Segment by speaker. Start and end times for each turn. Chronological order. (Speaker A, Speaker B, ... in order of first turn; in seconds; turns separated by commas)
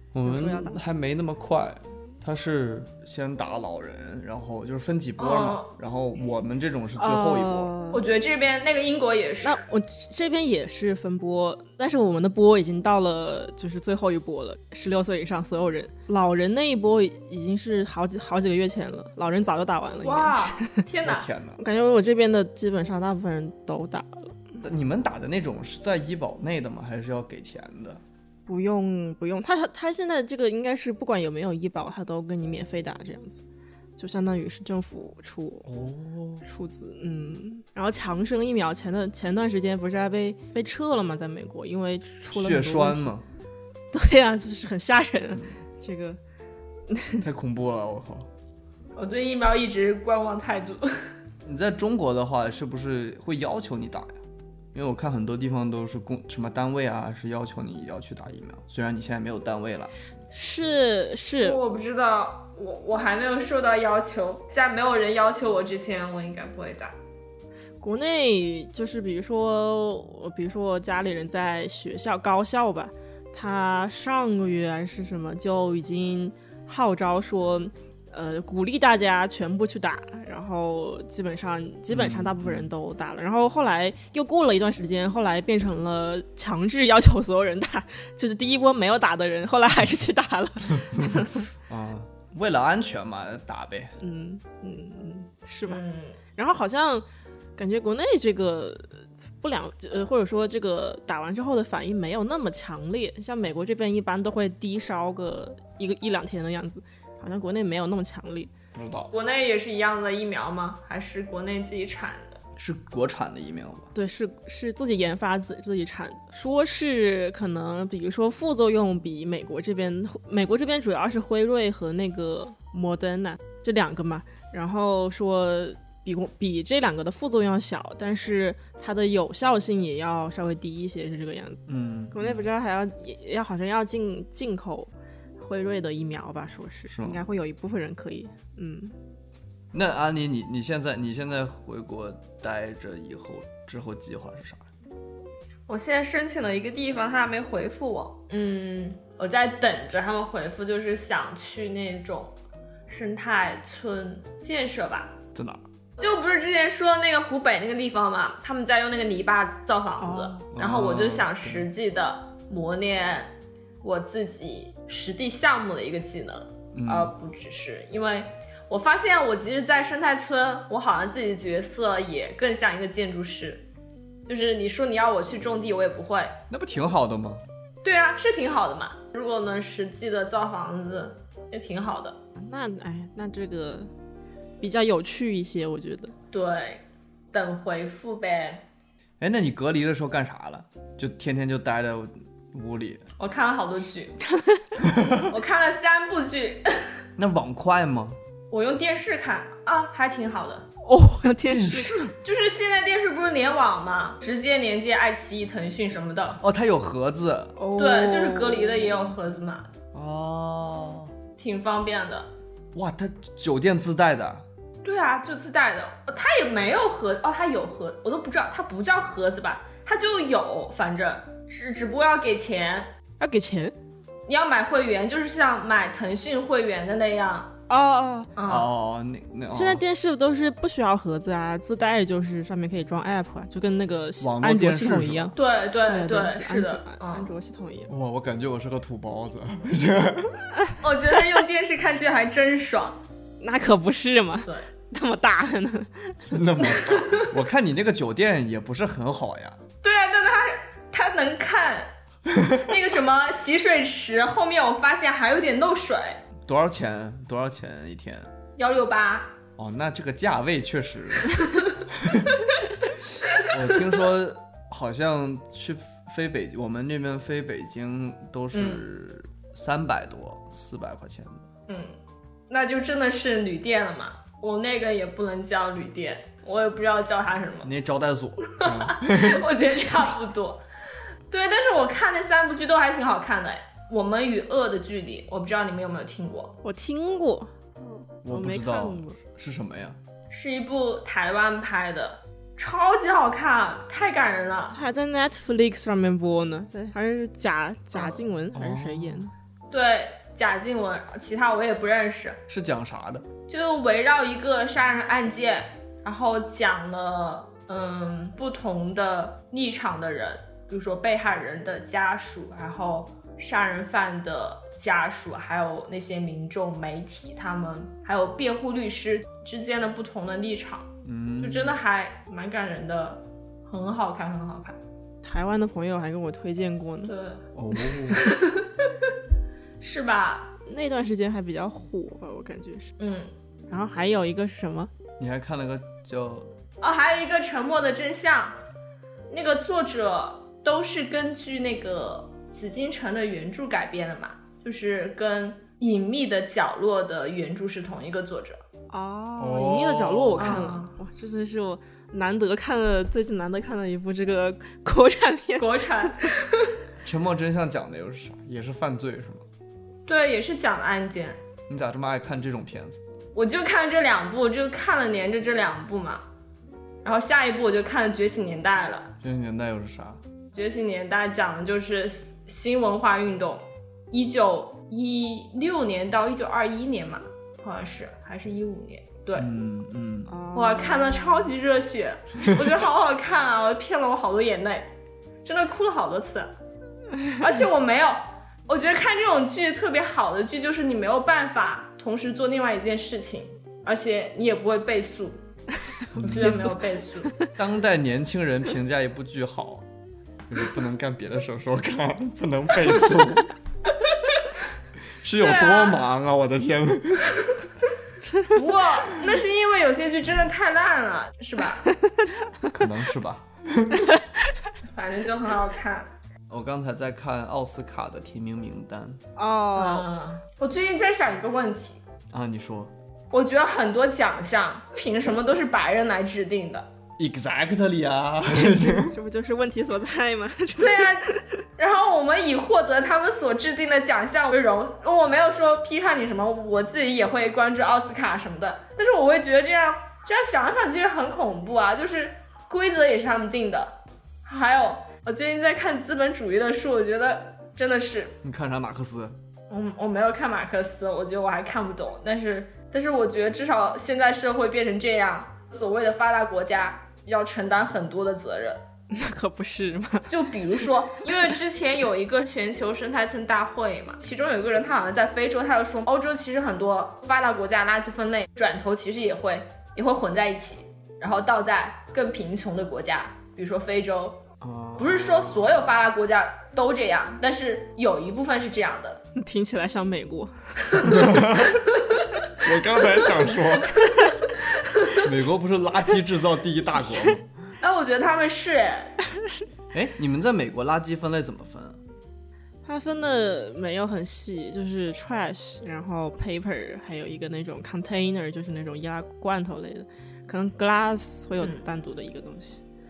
Speaker A: 0.1-7.7, Speaker B: 0.2-0.8, Speaker C: 5.2-5.7, Speaker B: 7.0-8.1, Speaker C: 7.9-9.6, Speaker B: 9.4-20.8, Speaker C: 20.0-21.3, Speaker A: 21.0-21.6, Speaker B: 21.6-24.4, Speaker A: 24.6-28.0, Speaker B: 28.4-33.4, Speaker B: 34.0-35.7, Speaker A: 35.6-36.4, Speaker B: 36.4-43.1, Speaker A: 42.3-43.2, Speaker B: 43.9-46.2, Speaker B: 46.9-47.2, Speaker A: 47.2-48.3, Speaker C: 49.0-51.1, Speaker A: 51.4-54.2, Speaker A: 54.7-59.9, Speaker B: 60.3-61.6, Speaker C: 61.4-66.9, Speaker B: 67.8-91.4, Speaker A: 81.9-82.7, Speaker A: 91.2-93.9, Speaker B: 94.0-95.8, Speaker C: 95.7-96.2, Speaker B: 96.3-97.0, Speaker B: 97.6-108.5, Speaker A: 108.7-109.1, Speaker C: 109.1-112.4, Speaker A: 112.6-113.9, Speaker B: 113.9-138.9, Speaker A: 131.7-132.4, Speaker A: 136.9-137.2, Speaker A: 139.7-144.7, Speaker C: 145.7-152.3, Speaker C: 152.9-155.2, Speaker A: 155.3-155.6, Speaker C: 156.0-173.7, Speaker B: 160.0-160.5, Speaker A: 160.5-161.7, Speaker A: 166.7-167.1, Speaker C: 174.3-176.4, Speaker A: 176.5-177.4, Speaker C: 177.8-182.2, Speaker B: 182.4-183.9, Speaker B: 184.6-186.1, Speaker C: 186.3-188.6, Speaker A: 189.2-193.1, Speaker C: 193.2-194.1, Speaker B: 194.3-194.6, Speaker A: 194.8-195.2, Speaker C: 195.3-196.9, Speaker A: 197.2-198.2, Speaker C: 198.5-200.7, Speaker B: 200.8-201.9, Speaker A: 201.5-202.2, Speaker C: 202.2-206.4, Speaker A: 206.3-207.6, Speaker B: 207.6-209.1, Speaker C: 207.8-209.7, Speaker A: 209.9-211.1, Speaker C: 211.4-212.3, Speaker A: 212.7-214.4, Speaker C: 214.8-222.9, Speaker B: 223.2-223.7, Speaker C: 224.3-227.5, Speaker B: 227.7-228.3, Speaker C: 228.3-228.7, Speaker A: 228.4-229.8, Speaker B: 229.5-235.3, Speaker A: 234.2-235.3, Speaker C: 235.3-237.3, Speaker B: 235.8-237.9, Speaker A: 237.9-240.4, Speaker C: 240.8-243.0, Speaker B: 243.4-246.3, Speaker A: 246.2-249.6, Speaker C: 246.7-247.3, Speaker C: 249.8-251.9, Speaker C: 252.5-256.2, Speaker A: 256.4-258.3, Speaker C: 258.6-259.3, Speaker A: 259.6-262.5, Speaker A: 263.4-271.4, Speaker C: 268.5-268.8, Speaker C: 271.7-271.9, Speaker C: 272.5-277.7, Speaker A: 277.6-279.4, Speaker C: 278.5-280.6, Speaker C: 281.3-286.6, Speaker B: 286.6-289.2, Speaker A: 288.2-290.0, Speaker C: 290.3-294.8, Speaker B: 294.7-299.3, Speaker A: 298.0-299.3, Speaker C: 299.7-302.4, Speaker A: 302.5-303.3, Speaker C: 303.5-324.8, Speaker A: 321.0-321.8, Speaker B: 325.2-327.1, Speaker C: 327.1-329.1, Speaker A: 327.5-328.4, Speaker C: 329.8-330.6, Speaker B: 330.7-332.9, Speaker C: 333.0-333.3, Speaker B: 333.7-334.9, Speaker A: 335.2-336.5, Speaker C: 336.8-338.6, Speaker C: 339.3-348.6, Speaker B: 348.9-356.3, Speaker A: 349.4-350.7, Speaker C: 350.4-350.9, Speaker C: 355.6-356.7, Speaker A: 357.0-359.4, Speaker C: 360.1-361.4, Speaker A: 361.7-363.0, Speaker C: 363.3-366.2, Speaker C: 367.0-369.1, Speaker A: 369.2-370.2, Speaker C: 370.5-379.5, Speaker A: 379.3-380.3, Speaker B: 380.3-381.5, Speaker C: 380.5-384.9, Speaker C: 385.4-386.5, Speaker C: 387.4-395.4, Speaker C: 396.1-397.3, Speaker A: 396.2-396.7, Speaker B: 396.2-397.5, Speaker A: 397.5-399.9, Speaker A: 400.5-403.5, Speaker A: 405.2-407.4, Speaker C: 405.4-406.0, Speaker C: 408.5-411.9, Speaker B: 411.9-412.3, Speaker A: 412.7-414.1, Speaker C: 414.9-416.1, Speaker A: 416.5-419.2, Speaker B: 419.4-420.1, Speaker C: 419.7-422.0, Speaker A: 422.3-422.9, Speaker C: 423.3-426.9, Speaker A: 427.2-429.1, Speaker B: 428.5-431.5, Speaker C: 430.8-448.4, Speaker A: 448.4-449.4, Speaker C: 449.7-458.8, Speaker B: 459.1-461.5, Speaker C: 460.3-474.4, Speaker A: 474.6-475.8, Speaker C: 475.0-479.2, Speaker B: 479.3-481.0, Speaker C: 480.9-481.3, Speaker A: 481.0-481.8, Speaker C: 481.9-482.4, Speaker A: 482.6-484.1, Speaker C: 484.8-485.3, Speaker A: 485.2-487.5, Speaker C: 487.8-489.1, Speaker A: 489.9-492.0, Speaker B: 492.8-502.8